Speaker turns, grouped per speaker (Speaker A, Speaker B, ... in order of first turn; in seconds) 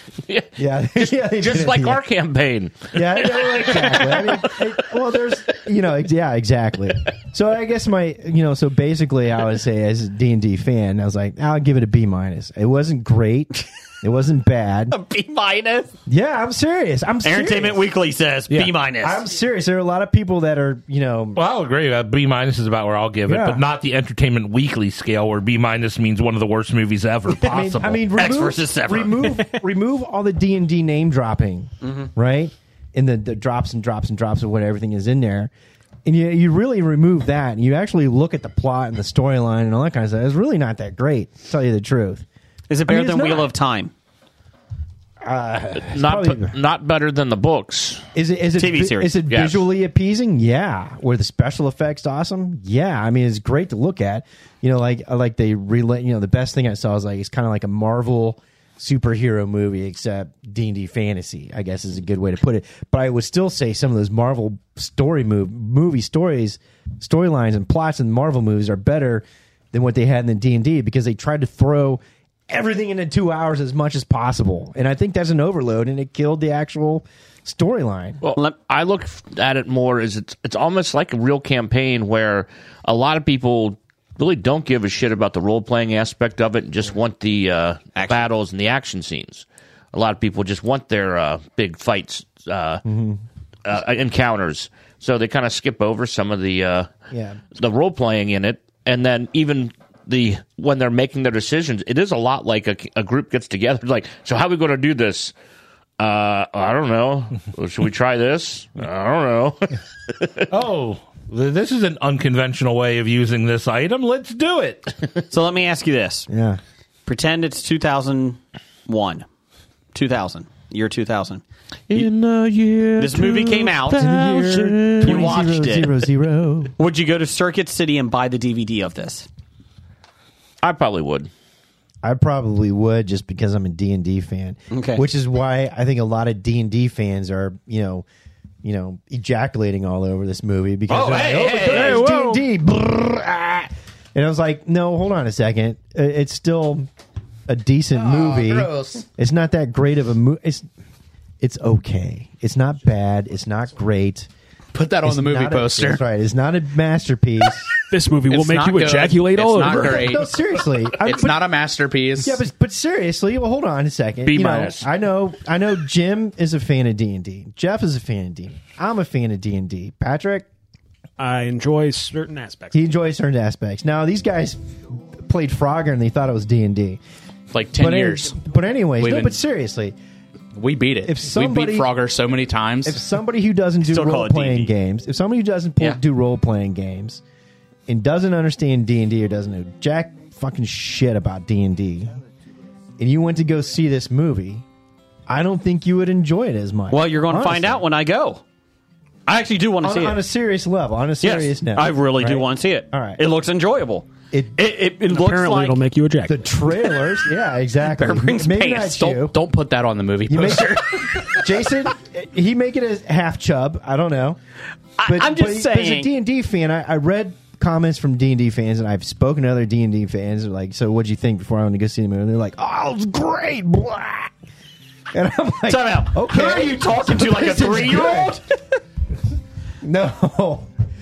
Speaker A: 0.3-4.6, 45.8-48.0, 49.3-49.6, 78.2-92.8, 93.7-96.9, 97.5-105.3, 106.0-110.5, 130.6-131.3, 164.3-164.9
Speaker B: 0.6-2.0, 2.9-14.9, 16.1-17.9, 19.0-21.4, 23.3-23.6, 27.4-35.5, 36.0-42.2, 42.9-43.5, 45.2-46.5, 48.1-78.2, 92.8-93.2, 97.1-97.4, 116.3-116.6, 123.9-126.7, 132.0-138.1, 138.6-146.9, 147.5-150.7, 151.4-154.3, 155.0-157.7, 159.7-161.4, 162.2-170.5, 172.7-174.6, 175.1-177.0, 177.8-179.9, 181.0-181.9, 182.8-187.2, 187.9-192.2, 193.0-194.6, 195.3-197.8, 199.8-203.2, 204.3-204.6, 206.3-209.4, 210.3-214.4, 215.0-224.3, 225.1-228.4, 229.8-230.7
Speaker C: 14.9-15.9, 17.2-19.2, 28.2-29.6, 42.7-43.9, 48.6-49.2, 88.0-88.2, 115.3-116.3, 117.1-119.2, 119.9-121.4, 123.0-124.0, 125.0-126.0, 126.8-129.3, 134.7-135.0, 183.8-184.7, 196.9-198.4, 199.3-200.2, 201.2-205.8, 207.9-209.1, 215.0-216.1, 225.7-228.5
Speaker D: 21.4-28.1, 110.5-115.0, 122.0-125.2
Speaker E: 141.6-142.4, 157.9-160.1, 171.2-172.8, 205.1-206.5
Speaker F: 148.0-149.0, 154.7-156.0, 158.3-160.3, 161.0-162.4, 177.5-178.4, 179.0-179.4, 180.5-183.0, 209.0-211.3